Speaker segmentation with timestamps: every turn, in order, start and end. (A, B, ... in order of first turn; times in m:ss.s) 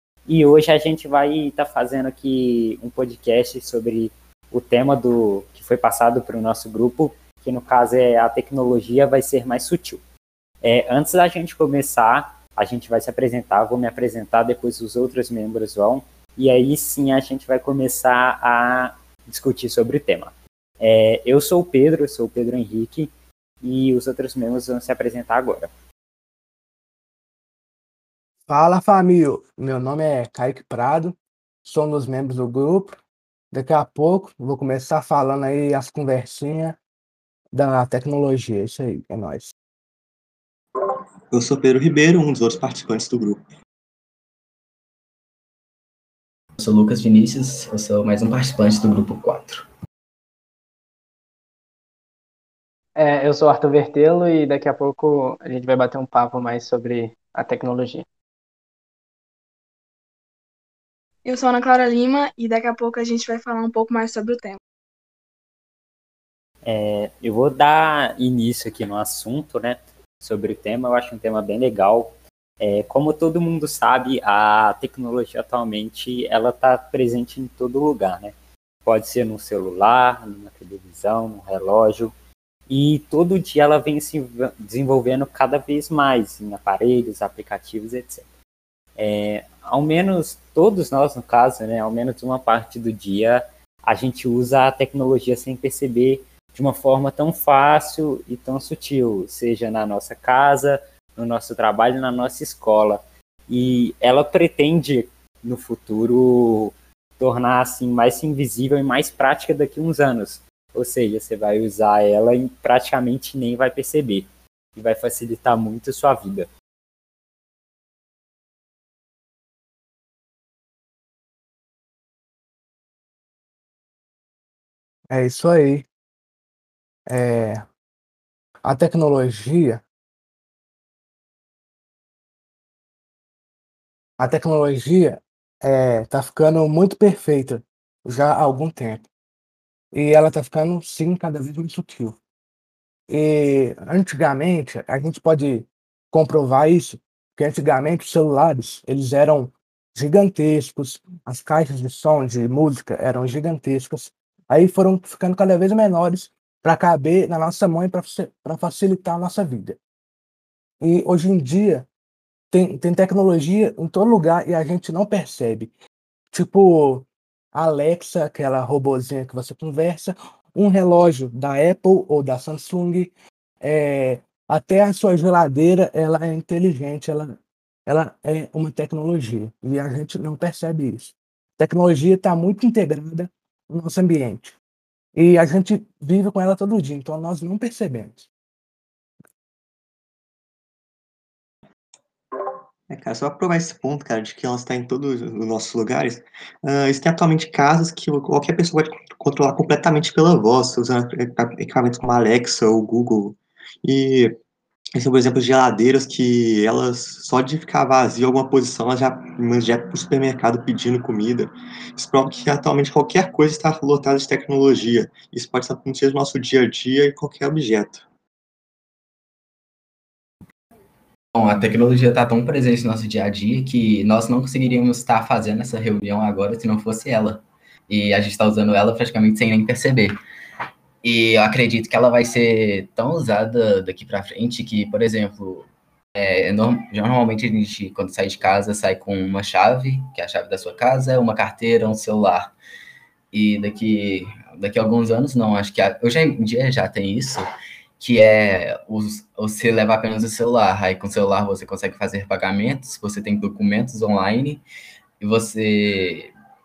0:00.2-0:10.0 A
0:10.6-0:23.1 A
0:23.6-0:25.7 A
0:28.5-0:33.0 B
0:33.5-0:36.8 B
0:37.5-0:39.5 B
0:41.3-0:43.4 C
0:46.6-0:49.6 D
0:53.0-0:58.0 E
1:01.2-1:04.6 F
1:06.6-1:18.3 A
1:18.8-1:22.1 A
1:22.7-1:28.3 A
1:29.0-1:56.5 A
2:05.1-2:05.8 B
2:07.1-2:07.6 B
2:08.6-2:09.8 B
2:14.2-2:19.0 B
2:19.9-2:22.2 B
2:23.1-2:39.8 B
2:40.8-2:41.9 B
2:42.5-2:45.7 B
2:46.3-2:57.3 B
2:57.9-3:04.5 B
3:05.2-3:08.3 B
3:12.9-3:24.3 C
3:25.0-3:38.0 C
3:41.3-3:50.2 D
3:51.0-4:02.5 D
4:03.3-4:07.5 D
4:08.0-4:14.6 D
4:15.2-4:16.3 D